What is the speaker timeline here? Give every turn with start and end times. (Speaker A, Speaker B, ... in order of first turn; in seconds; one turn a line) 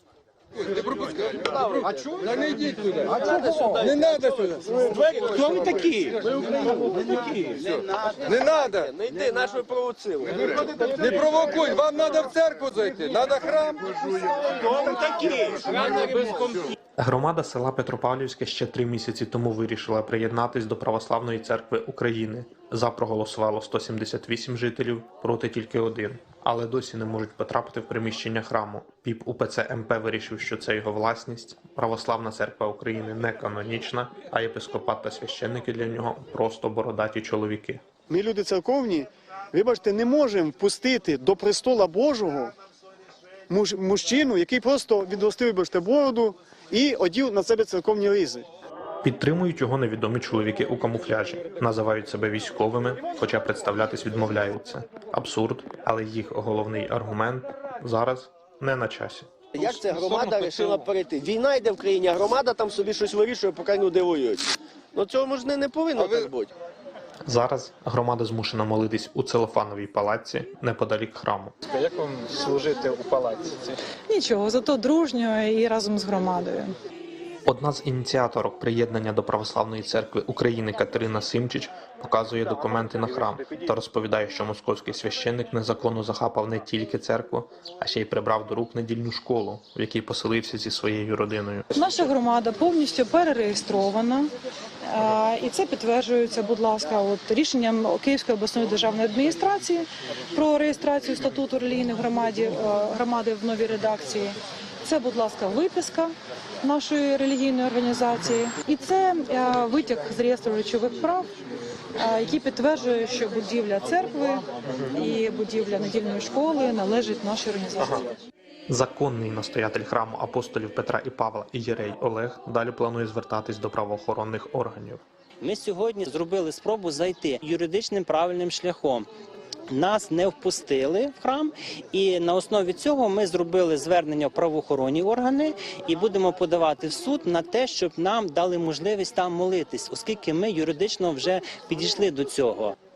Speaker A: 0.7-3.1
Speaker B: 1.0-11.5
Speaker A: 3.8-4.7
Speaker A: 8.2-8.9
Speaker A: 10.9-14.3
Speaker B: 14.3-16.6
Speaker C: 17.0-37.8
Speaker D: 38.1-42.5
Speaker D: 43.5-48.5
Speaker C: 49.0-59.3
Speaker B: 59.5-66.5
Speaker A: 59.6-60.8
Speaker A: 66.0-66.3
Speaker C: 67.2-71.5
Speaker E: 71.7-73.7
Speaker F: 74.1-76.7
Speaker C: 77.5-92.0
Speaker F: 91.7-94.3
Speaker F: 94.9-111.3
Speaker F: 112.0-118.1
Speaker C: 118.7-125.0
Speaker G: 125.4-129.1
Speaker G: 129.7-142.7